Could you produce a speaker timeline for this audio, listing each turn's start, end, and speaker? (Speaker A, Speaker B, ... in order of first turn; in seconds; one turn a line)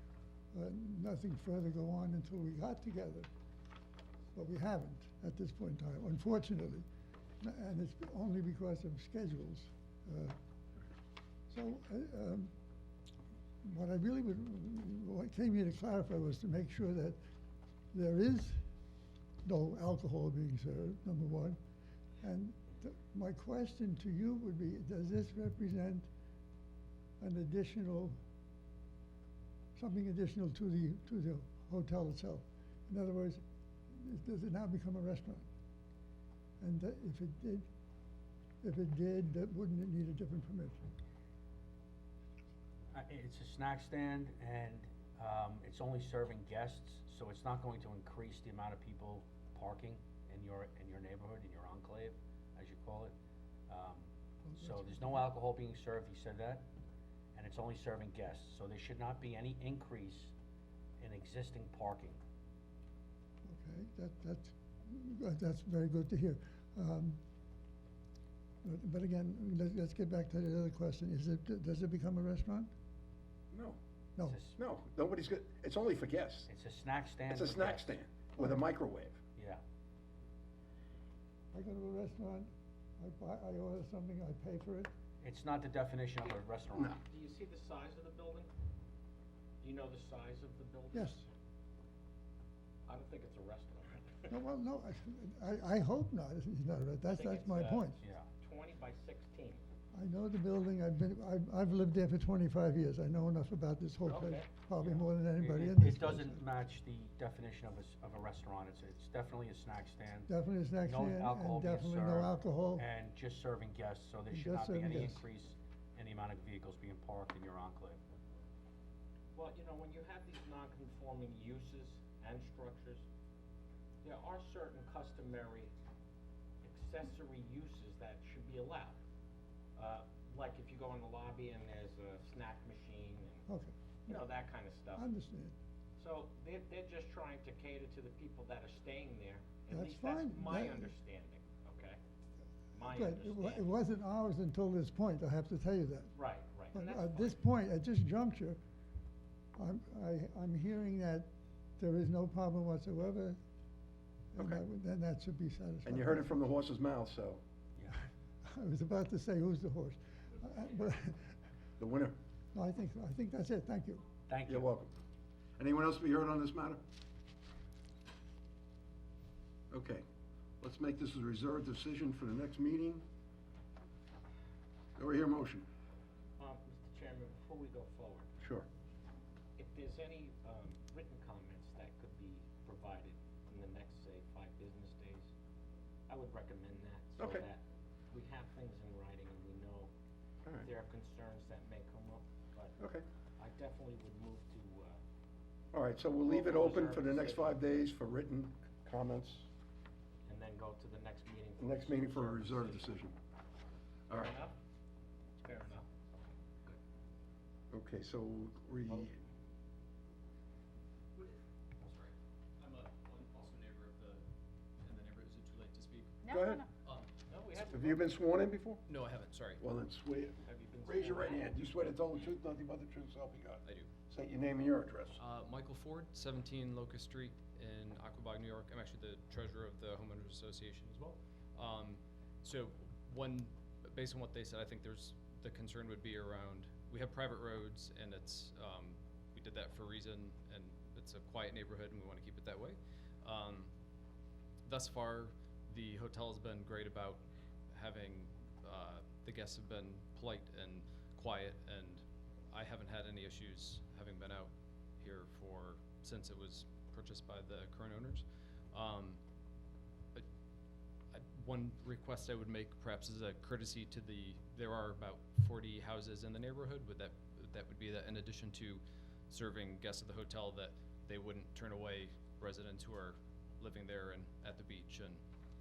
Speaker A: 0.5-3.3
Speaker A: 4.3-6.9
Speaker A: 7.4-10.4
Speaker A: 11.5-12.5
Speaker A: 13.6-17.2
Speaker A: 17.9-18.6
Speaker A: 19.4-21.6
Speaker A: 22.2-26.1
Speaker A: 27.2-28.2
Speaker A: 29.8-35.5
Speaker A: 36.6-37.7
Speaker A: 38.6-40.8
Speaker B: 42.9-53.1
Speaker B: 53.7-56.6
Speaker A: 54.4-55.2
Speaker B: 57.3-60.3
Speaker B: 61.0-62.2
Speaker A: 63.4-67.2
Speaker A: 68.6-72.7
Speaker C: 73.5-73.8
Speaker B: 74.2-74.6
Speaker C: 74.5-76.5
Speaker B: 76.5-78.0
Speaker C: 77.3-79.2
Speaker B: 79.3-79.6
Speaker A: 81.5-84.9
Speaker B: 85.2-87.0
Speaker D: 87.0-88.5
Speaker D: 89.6-91.2
Speaker A: 90.9-91.2
Speaker D: 92.9-94.3
Speaker A: 94.3-98.0
Speaker D: 97.0-99.6
Speaker B: 98.0-98.3
Speaker A: 99.9-106.4
Speaker D: 104.1-105.1
Speaker B: 105.3-110.3
Speaker A: 110.3-112.8
Speaker B: 110.8-118.0
Speaker A: 114.3-115.2
Speaker D: 119.3-123.0
Speaker D: 124.0-125.7
Speaker D: 126.6-129.0
Speaker D: 129.8-133.5
Speaker A: 133.5-133.7
Speaker D: 134.1-135.1
Speaker A: 134.9-135.6
Speaker D: 136.0-142.0
Speaker A: 139.7-140.9
Speaker D: 142.7-143.7
Speaker A: 142.8-146.1
Speaker D: 146.1-147.4
Speaker A: 146.7-148.6
Speaker A: 149.6-153.4
Speaker A: 154.3-156.3
Speaker C: 154.4-154.6
Speaker C: 155.8-157.4
Speaker A: 158.4-161.3
Speaker C: 161.8-162.2
Speaker A: 162.5-164.0
Speaker B: 164.3-164.7
Speaker C: 164.5-164.9
Speaker C: 165.6-166.8
Speaker C: 169.7-170.0
Speaker C: 170.6-173.0
Speaker C: 175.0-175.7
Speaker D: 176.4-178.3
Speaker C: 178.4-178.7
Speaker D: 179.6-185.3
Speaker D: 186.1-189.9
Speaker C: 187.2-187.4
Speaker D: 190.6-192.8
Speaker C: 192.8-193.0
Speaker D: 193.4-195.0
Speaker C: 195.7-199.5
Speaker D: 196.2-197.8
Speaker D: 200.2-202.9
Speaker C: 201.6-203.1
Speaker D: 204.1-204.5
Speaker D: 205.4-205.9
Speaker C: 207.7-209.1
Speaker E: 211.1-214.2
Speaker E: 214.8-216.2
Speaker C: 216.2-216.7
Speaker E: 216.8-217.1
Speaker D: 217.3-218.1
Speaker C: 217.6-218.8
Speaker E: 218.9-219.6
Speaker C: 219.6-225.2
Speaker D: 220.4-221.5
Speaker E: 225.2-243.7
Speaker E: 244.6-259.2
Speaker E: 261.1-275.2